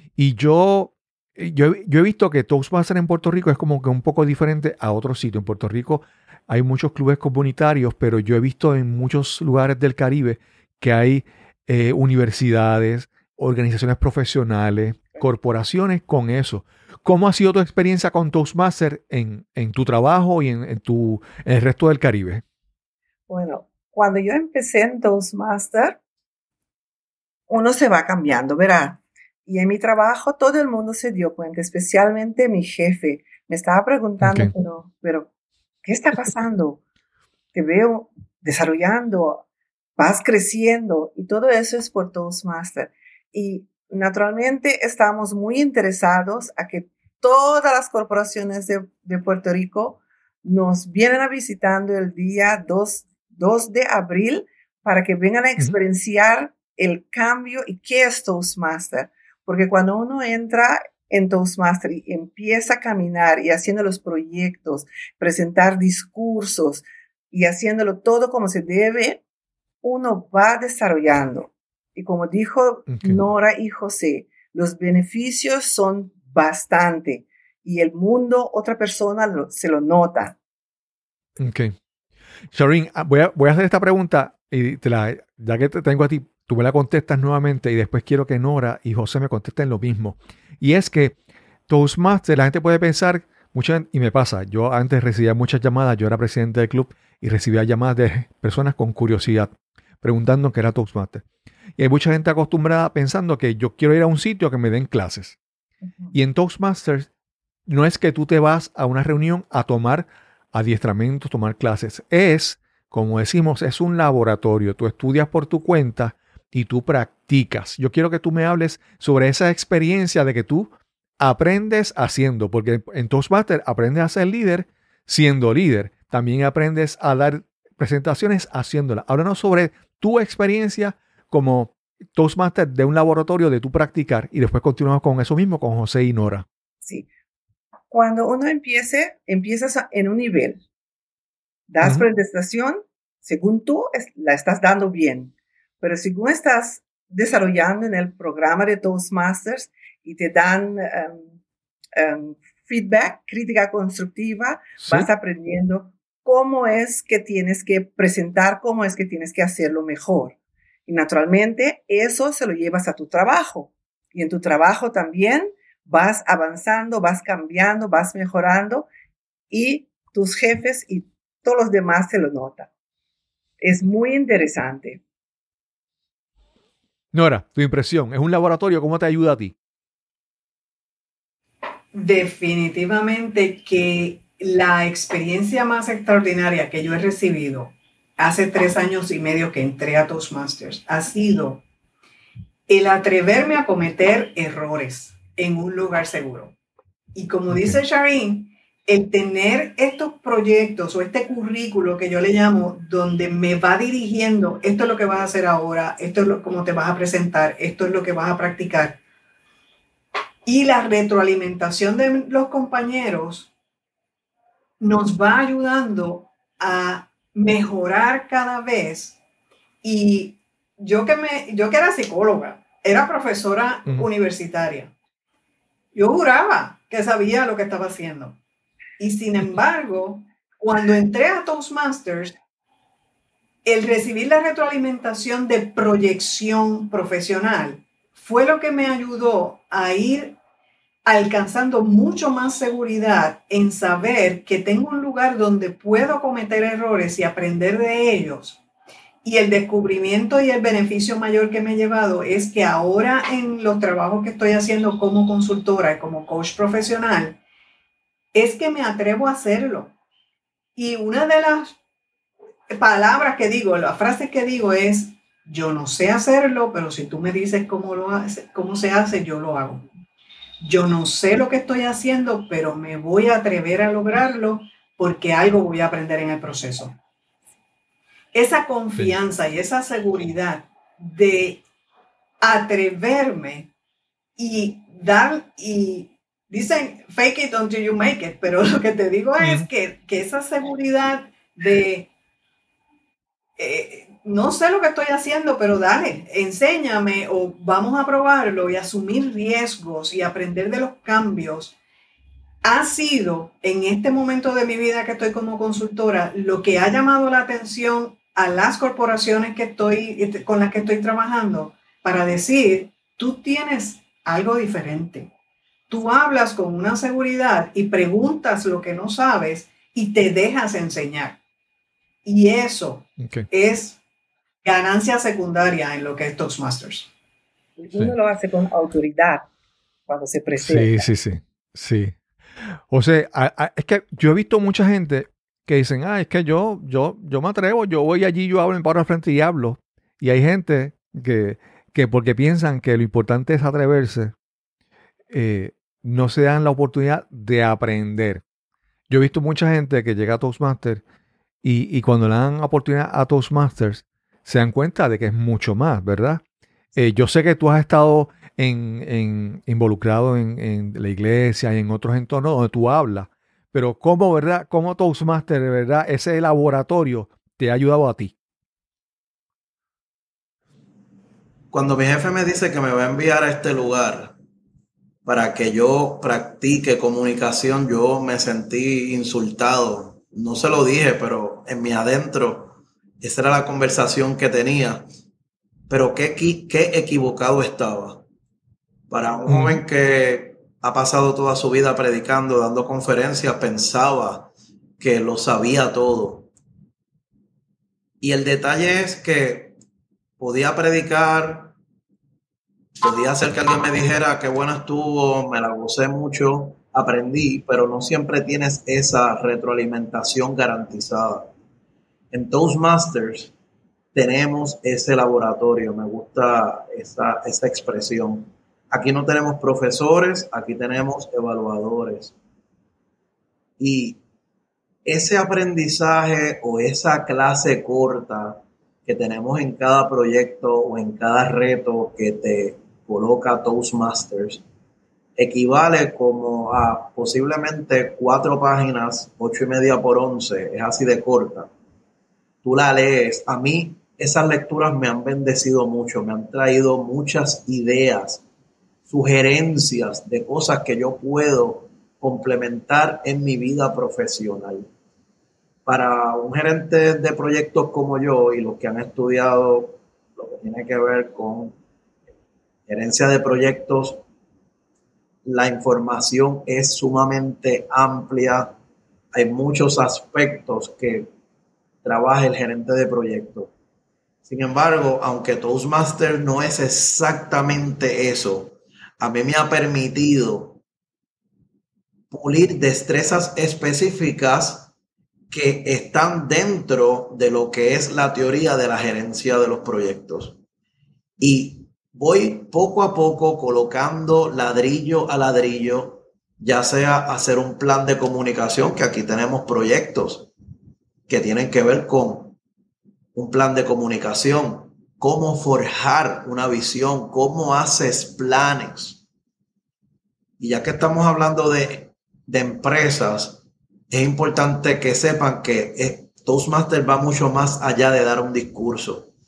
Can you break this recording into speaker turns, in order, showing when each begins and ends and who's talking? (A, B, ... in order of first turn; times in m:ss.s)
0:00.2-0:22.4 A
0:23.3-0:26.0 B
0:27.5-0:35.3 B
0:34.2-0:34.5 A
0:35.8-0:36.8 B
0:37.5-0:39.4 B
0:40.0-1:09.2 B
1:09.8-1:20.4 B
1:12.9-1:13.2 A
1:21.4-1:21.8 A
1:22.5-1:31.2 A
1:31.7-1:41.2 A
1:41.8-1:45.4 A
1:46.1-1:47.1 A
1:47.7-2:16.5 A
2:17.9-2:20.6 B
2:21.7-2:31.3 B
2:32.0-2:48.9 B
2:34.8-2:35.1 A
2:49.5-2:52.7 B
2:53.6-2:55.0 B
2:57.1-2:59.6 A
3:01.9-3:11.6 C
3:12.7-3:16.5 C
3:17.2-3:29.0 C
3:17.5-3:17.8 A
3:30.5-3:33.5 C
3:34.8-3:39.2 C
3:39.8-3:44.9 C
3:45.9-3:48.4 C
3:49.0-3:52.4 C
3:53.6-4:00.4 C
4:01.0-4:08.6 C
4:09.2-4:17.4 C
4:18.3-4:19.9 C
4:20.8-4:21.8 C
4:22.7-4:29.9 C
4:30.6-4:37.0 C
4:38.3-4:41.6 C
4:42.4-4:43.7 C
4:44.4-4:52.1 C
4:49.4-4:49.7 A
4:53.6-5:01.7 C
5:02.6-5:15.3 C
5:15.9-5:21.4 C
5:22.2-5:24.0 C
5:23.2-5:23.5 A
5:24.6-5:27.1 C
5:27.8-5:29.5 B
5:30.1-5:31.1 B
5:30.6-5:32.2 A
5:32.9-5:44.4 A
5:45.3-5:48.4 A
5:49.1-5:51.0 A
5:51.6-5:56.4 A
5:57.0-6:08.4 A
6:11.7-6:14.4 D
6:15.3-6:25.1 D
6:25.9-6:28.2 D
6:29.1-6:36.5 D
6:29.5-6:29.8 A
6:38.2-6:39.8 D
6:40.4-6:41.8 D
6:43.0-6:51.5 D
6:52.3-6:53.5 D
6:54.1-7:02.4 D
7:03.8-7:04.2 D
7:05.0-7:14.6 D
7:15.4-7:21.7 D
7:22.6-7:28.4 D
7:29.1-7:34.9 D
7:35.9-7:41.8 D
7:42.9-7:44.2 D
7:45.4-7:48.7 D
7:49.4-7:51.3 D
7:52.0-7:53.7 D
7:54.4-8:00.8 D
8:02.3-8:04.9 D
8:05.5-8:10.6 D
8:11.4-8:20.5 D
8:21.3-8:22.6 D
8:23.4-8:29.2 D
8:30.6-8:39.3 D